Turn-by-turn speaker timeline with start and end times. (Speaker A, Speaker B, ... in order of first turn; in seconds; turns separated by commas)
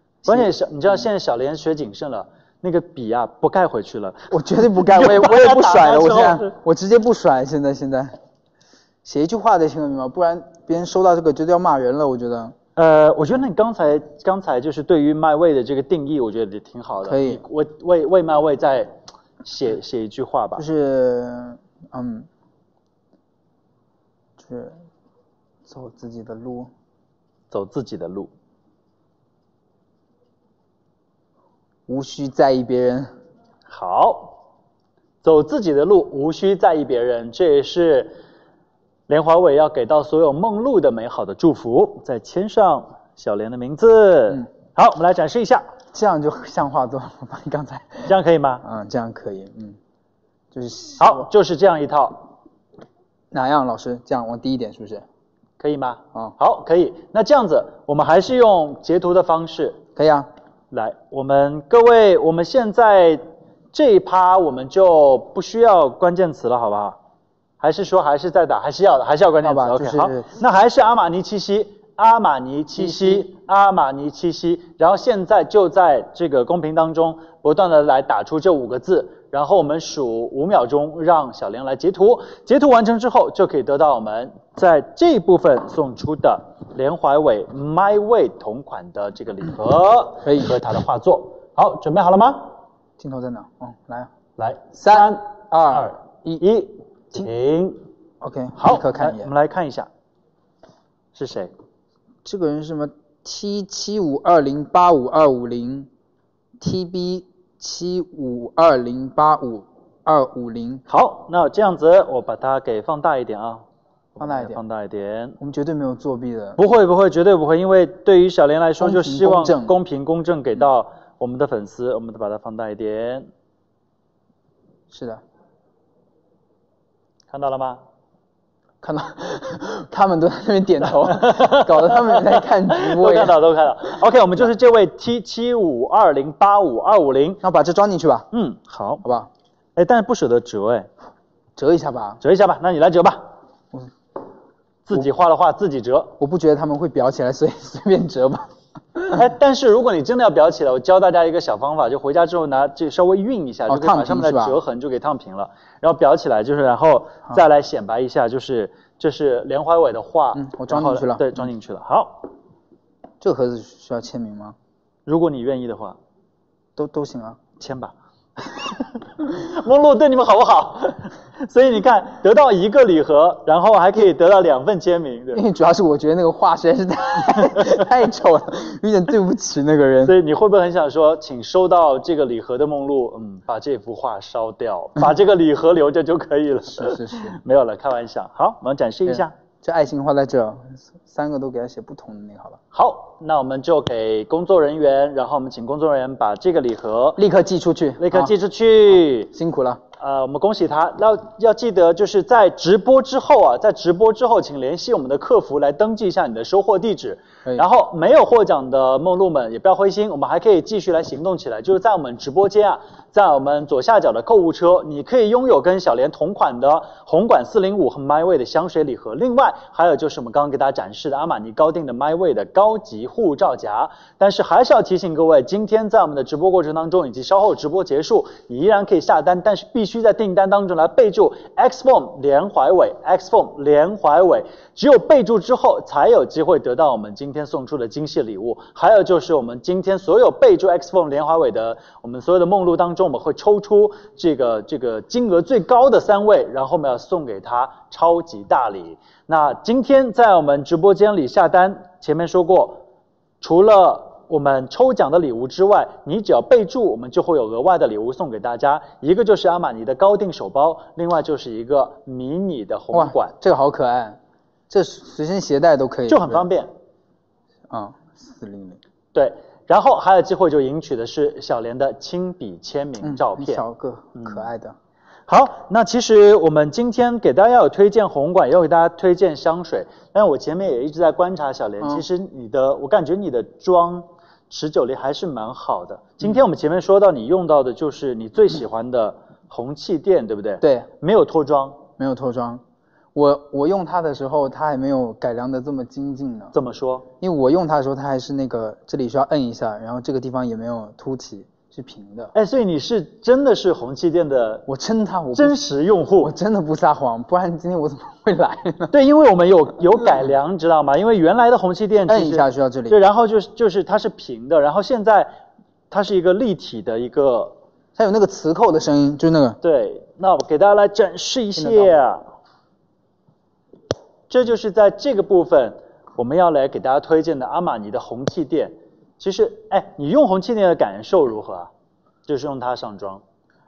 Speaker A: 0.2-0.5, Speaker B: 0.3-6.5, Speaker A: 4.3-8.1, Speaker A: 9.0-12.5, Speaker B: 12.8-20.6, Speaker A: 17.0-17.4, Speaker A: 20.6-22.3, Speaker A: 24.4-24.8, Speaker A: 25.6-26.7, Speaker B: 27.5-28.3, Speaker A: 31.9-33.1, Speaker B: 33.7-34.4, Speaker B: 35.2-38.1, Speaker B: 39.1-45.7, Speaker A: 45.9-48.1, Speaker B: 48.0-48.6, Speaker A: 48.6-49.8, Speaker A: 50.5-51.3, Speaker B: 51.0-52.2, Speaker A: 53.3-55.0, Speaker B: 55.6-59.8, Speaker A: 60.0-60.3, Speaker B: 60.7-67.0, Speaker B: 67.6-92.5, Speaker A: 69.4-70.3, Speaker A: 72.8-73.2, Speaker A: 90.2-90.5, Speaker A: 93.0-94.1, Speaker B: 94.4-97.8, Speaker A: 94.8-96.4, Speaker A: 98.2-99.3, Speaker B: 98.5-99.9, Speaker B: 101.1-101.5, Speaker A: 102.2-105.9, Speaker A: 106.6-110.8, Speaker B: 110.9-113.6, Speaker B: 114.2-115.4, Speaker A: 114.2-114.6, Speaker A: 115.4-116.6, Speaker B: 116.6-123.3, Speaker A: 118.8-119.7, Speaker A: 124.9-125.2, Speaker B: 127.3-127.8, Speaker A: 128.8-133.4, Speaker B: 130.8-137.4, Speaker A: 137.4-138.3, Speaker B: 138.3-139.0, Speaker A: 139.0-139.3, Speaker B: 139.8-140.9, Speaker A: 141.6-142.2, Speaker B: 142.2-143.3, Speaker B: 144.8-146.2, Speaker A: 146.2-149.2, Speaker B: 149.1-162.3, Speaker A: 153.7-154.6, Speaker A: 160.3-161.4, Speaker A: 163.2-164.5, Speaker B: 165.1-166.0, Speaker A: 166.8-167.5, Speaker B: 167.6-167.9, Speaker B: 168.5-175.4, Speaker A: 175.3-180.2, Speaker B: 180.0-189.3, Speaker A: 186.7-187.3, Speaker A: 189.1-192.6, Speaker B: 192.7-197.2, Speaker A: 197.2-198.3, Speaker B: 198.0-199.3, Speaker A: 199.3-199.8, Speaker B: 200.0-252.8, Speaker B: 253.4-263.3, Speaker A: 262.9-264.2, Speaker A: 264.7-266.4, Speaker B: 266.1-266.7, Speaker A: 267.7-268.8, Speaker B: 269.1-273.6, Speaker A: 273.0-274.7, Speaker B: 274.1-274.5, Speaker B: 275.3-291.8, Speaker A: 281.8-282.0, Speaker A: 290.6-290.9, Speaker A: 292.0-292.6, Speaker A: 293.1-296.5, Speaker B: 296.5-297.1, Speaker A: 297.2-302.3, Speaker B: 302.3-304.7, Speaker A: 304.7-305.6, Speaker B: 305.3-306.3, Speaker A: 306.2-308.9, Speaker B: 308.9-315.3, Speaker A: 312.1-312.9, Speaker B: 315.9-317.6, Speaker A: 317.9-319.6, Speaker B: 319.6-322.2, Speaker A: 321.5-321.9, Speaker B: 324.3-331.7, Speaker B: 332.3-333.2